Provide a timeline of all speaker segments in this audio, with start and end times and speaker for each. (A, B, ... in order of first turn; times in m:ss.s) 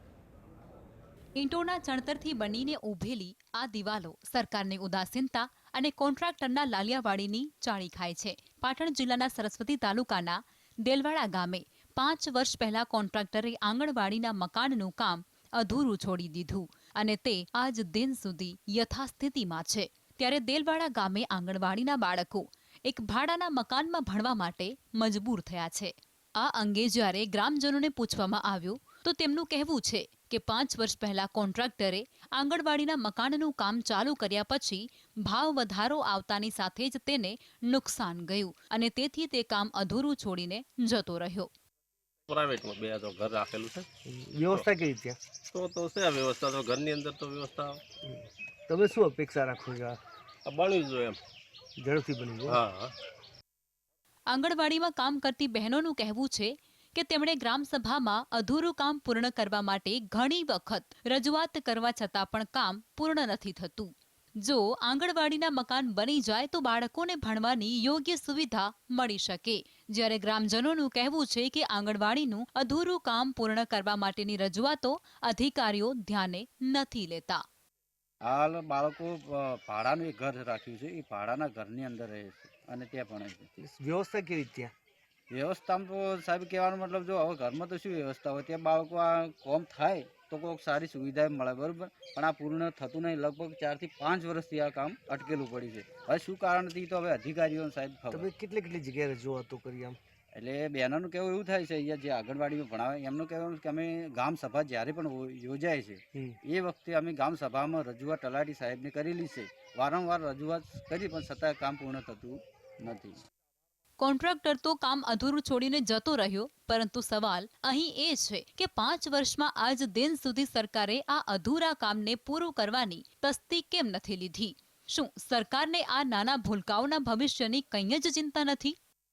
0:01.4-0:41.5 A
0:42.3-0:44.7 B
0:44.0-0:45.2 C
0:45.5-0:47.8 B
0:48.0-0:50.0 C
0:50.4-0:51.2 B
0:51.8-0:52.6 C
0:52.5-0:52.9 B
0:54.3-1:03.9 A
1:04.4-1:17.4 A
1:18.2-1:23.5 D
1:23.6-1:24.7 C
1:25.3-1:38.3 D
1:38.1-1:40.0 C
1:40.4-1:53.2 D
1:54.0-2:08.8 A